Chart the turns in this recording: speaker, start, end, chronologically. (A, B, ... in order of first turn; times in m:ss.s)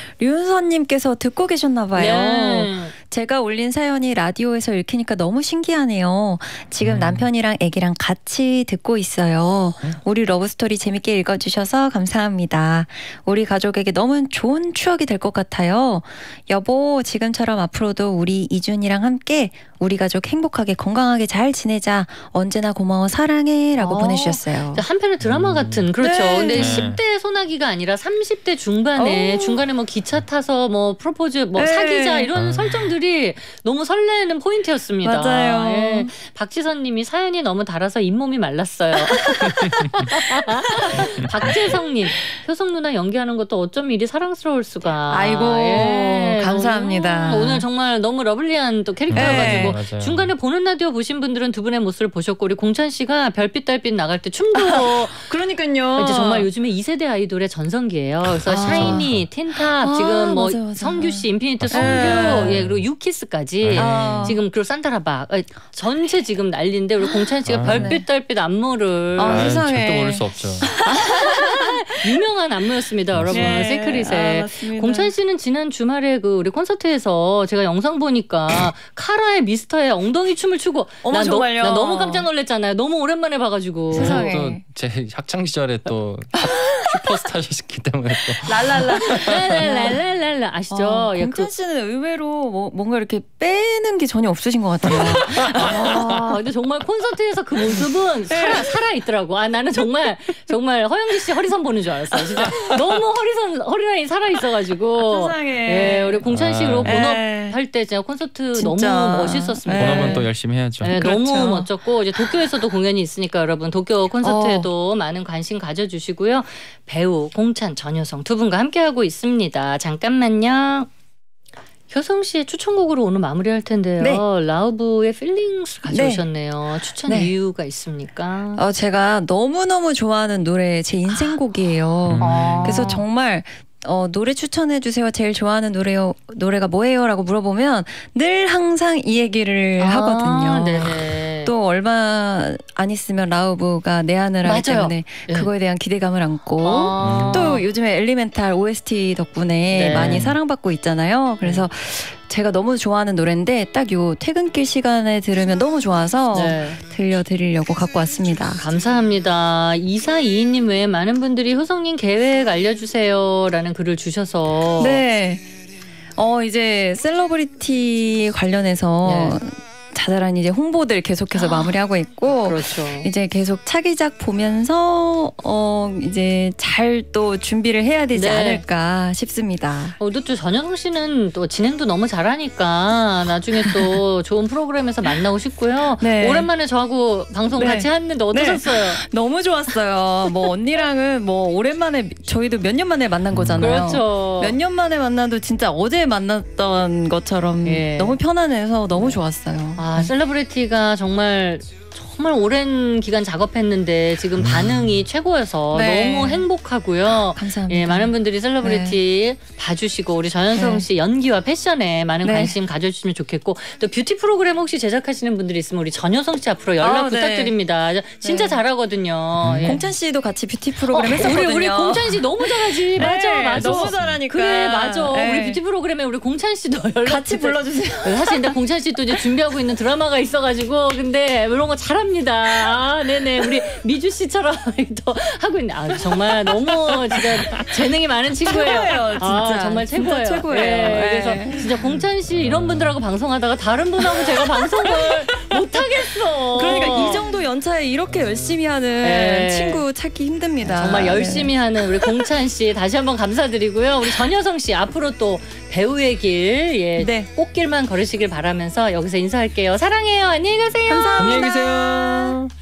0:00.2-0:24.8 A
0:01.9-0:02.9 B
0:06.8-0:07.2 C
0:23.8-0:55.3 B
0:25.2-0:25.8 C
0:26.0-0:26.9 A
0:26.5-0:27.0 C
0:29.0-0:29.6 A
0:31.6-0:32.3 A
0:32.3-0:32.9 C
0:35.0-0:36.1 A
0:39.1-0:41.1 A
0:45.1-0:47.6 A
0:49.1-0:50.3 C
0:49.1-0:49.8 A
0:54.5-0:56.5 A
0:56.0-1:09.5 B
0:58.4-0:59.1 A
0:58.6-0:59.2 C
0:59.8-1:02.6 A
1:01.6-1:02.8 C
1:03.6-1:04.3 C
1:03.8-1:04.4 A
1:07.5-1:07.9 C
1:07.6-1:08.0 A
1:09.2-1:12.1 A
1:09.2-1:10.7 C
1:10.9-1:24.3 B
1:13.1-1:13.7 C
1:13.3-1:15.1 A
1:21.0-1:22.3 A
1:23.9-1:24.6 A
1:23.9-1:29.4 C
1:26.4-1:27.0 A
1:28.4-1:30.0 A
1:29.0-1:31.5 B
1:30.7-1:36.2 A
1:35.4-1:50.2 B
1:38.3-1:38.8 A
1:45.0-1:46.2 A
1:46.3-1:47.0 C
1:46.8-1:47.6 A
1:48.5-1:50.3 A
1:49.7-1:50.9 C
1:50.8-2:00.9 B
1:50.8-1:51.7 A
1:54.2-1:54.7 A
2:01.9-2:08.6 B
2:04.0-2:04.2 A
2:05.9-2:06.2 A
2:07.0-2:07.3 A
2:08.6-2:38.6 A
2:11.1-2:11.3 B
2:12.0-2:12.8 C
2:12.2-2:13.0 B
2:19.8-2:21.5 B
2:24.4-2:25.5 B
2:26.6-2:27.6 B
2:27.0-2:27.5 C
2:29.7-2:30.2 B
2:29.9-2:30.4 C
2:31.4-2:31.7 B
2:36.3-2:36.8 B
2:38.6-2:45.0 B
2:44.8-2:45.5 A
2:46.2-3:00.0 A
2:49.0-2:49.4 B
2:51.3-2:51.7 B
2:52.4-2:53.1 B
2:58.1-2:58.6 B
3:00.0-3:09.0 B
3:03.6-3:04.0 A
3:06.0-3:06.5 A
3:07.5-3:20.1 A
3:13.3-3:13.8 C
3:13.6-3:14.6 B
3:17.6-3:18.2 B
3:19.8-3:39.8 B
3:24.6-3:24.8 C
3:25.7-3:26.4 A
3:27.3-3:29.0 A
3:30.5-3:30.8 A
3:32.2-3:32.6 A
3:36.8-3:37.5 A
3:38.2-3:38.6 A
3:39.4-3:39.8 C
3:39.6-3:45.6 A
3:40.9-4:07.2 B
3:43.0-3:44.1 C
3:47.0-3:48.5 A
3:57.1-3:57.6 A
3:58.4-4:01.7 A
4:02.4-4:02.8 C
4:04.1-4:05.6 A
4:06.5-4:12.1 A
4:09.0-4:09.8 B
4:10.6-4:21.4 B
4:17.0-4:17.3 A
4:20.9-4:22.4 A
4:21.2-4:22.5 C